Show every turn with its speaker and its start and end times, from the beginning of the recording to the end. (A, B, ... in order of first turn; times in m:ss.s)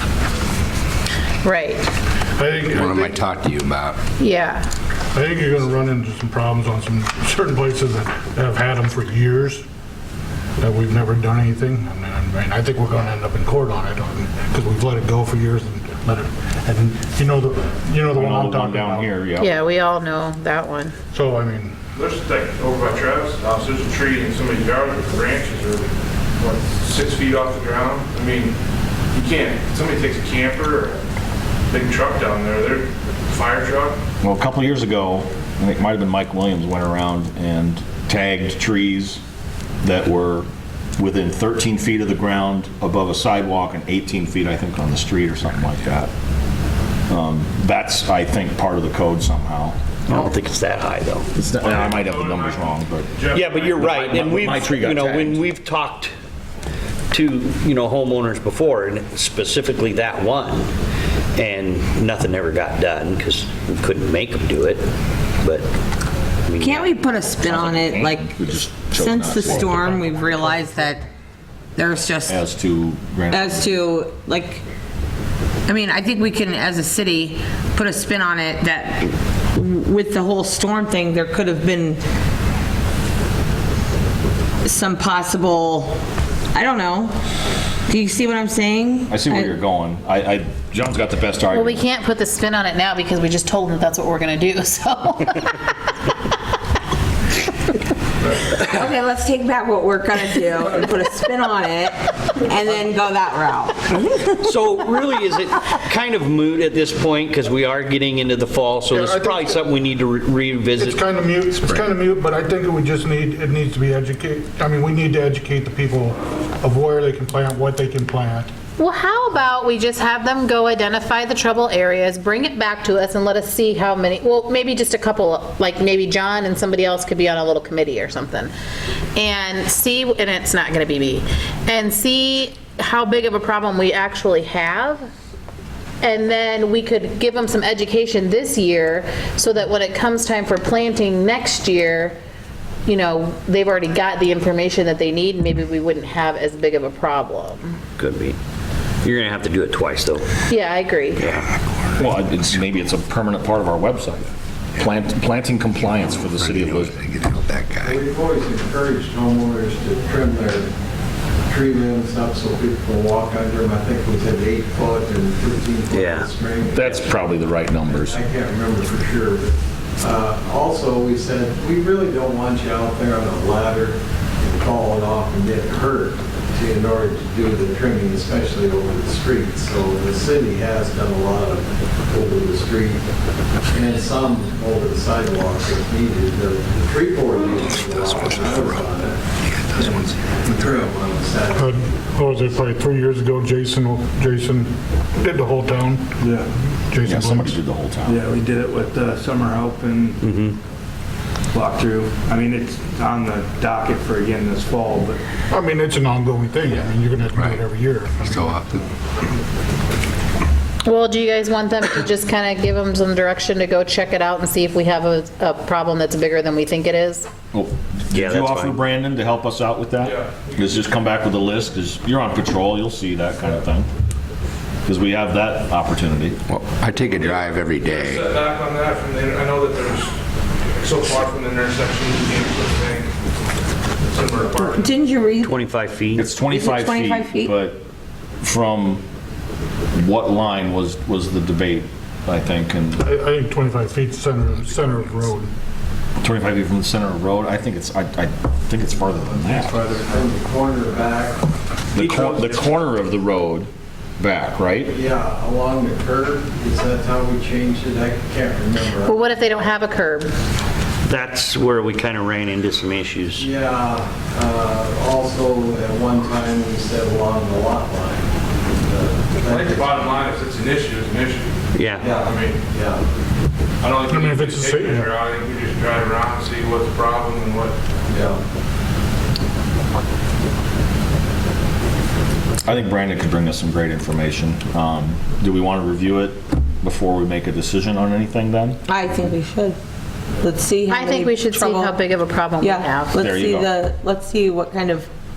0:01.4-0:01.8 A
0:02.4-0:03.1 B
0:02.7-0:04.0 C
0:04.2-0:04.7 A
0:05.1-0:09.6 B
0:10.6-0:19.1 B
0:18.1-0:19.6 D
0:19.4-0:21.0 A
0:21.1-0:21.8 B
0:22.0-0:28.5 E
0:29.1-0:31.0 E
0:31.7-0:34.0 E
0:34.2-0:39.2 D
0:39.8-0:46.1 D
0:47.1-0:50.3 D
0:50.1-0:51.3 F
0:51.4-0:53.1 D
0:51.6-0:52.6 E
0:53.1-0:54.0 E
0:53.3-0:56.1 F
0:53.7-0:55.4 D
0:57.1-1:00.7 F
1:01.4-1:04.8 F
1:06.5-1:07.0 F
1:06.6-1:11.0 G
1:07.4-1:10.0 D
1:11.8-1:12.4 G
1:12.3-1:13.8 D
1:13.3-1:14.6 G
1:15.7-1:22.0 G
1:24.6-1:26.0 G
1:26.5-1:27.1 G
1:27.9-1:29.5 G
1:29.1-1:31.8 D
1:31.5-1:35.6 A
1:38.7-1:43.8 G
1:43.9-1:51.0 F
1:48.9-1:49.6 B
1:50.8-1:58.5 B
1:58.8-2:08.5 A
2:09.2-2:15.1 A
2:16.0-2:22.2 A
2:22.9-2:27.8 A
2:28.0-2:28.4 F
2:29.0-2:30.3 F
2:30.5-2:31.2 A
2:31.2-2:31.5 F
2:32.0-2:37.0 D
2:36.2-2:38.0 C
2:37.8-2:40.7 H
2:41.5-2:47.3 H
2:45.9-2:46.3 F
2:46.7-2:48.2 D
2:47.8-3:03.0 H
3:03.7-3:09.2 H
3:07.9-3:08.7 C
3:09.8-3:11.9 H
3:11.6-3:16.1 B
3:16.2-3:16.5 I
3:16.9-3:17.6 B
3:17.0-3:18.3 D
3:18.1-3:20.2 I
3:20.2-3:20.6 F
3:21.5-3:25.2 I
3:25.5-3:28.8 B
3:27.3-3:27.6 C
3:28.2-3:28.8 C
3:30.8-3:37.3 A
3:37.5-3:43.9 D
3:38.1-3:38.8 F
3:40.0-3:40.6 E
3:44.8-3:46.4 D
3:46.5-3:48.4 C
3:47.9-3:50.2 E
3:50.8-3:53.1 E
3:54.0-3:54.8 E
3:54.6-3:55.6 G
3:55.4-3:56.3 F
3:56.2-3:57.8 D
3:56.4-3:57.5 G
3:58.4-3:59.0 D
3:59.9-4:03.0 D
4:03.0-4:05.5 B
4:06.2-4:09.8 D
4:09.3-4:11.4 H
4:11.9-4:14.9 D
4:12.0-4:12.5 I
4:14.9-4:19.3 H
4:19.0-4:20.3 A
4:21.0-4:23.5 F
4:23.4-4:30.1 H
4:29.5-4:31.6 E
4:31.7-4:32.1 F
4:32.0-4:33.0 H
4:32.2-4:32.6 E
4:33.8-4:37.8 E
4:34.1-4:35.2 B
4:38.1-4:38.4 H
4:42.6-4:48.8 D
4:48.9-4:49.8 G
4:50.4-4:52.0 G
4:50.9-4:53.2 A
4:52.6-4:55.1 G
4:53.2-4:53.7 D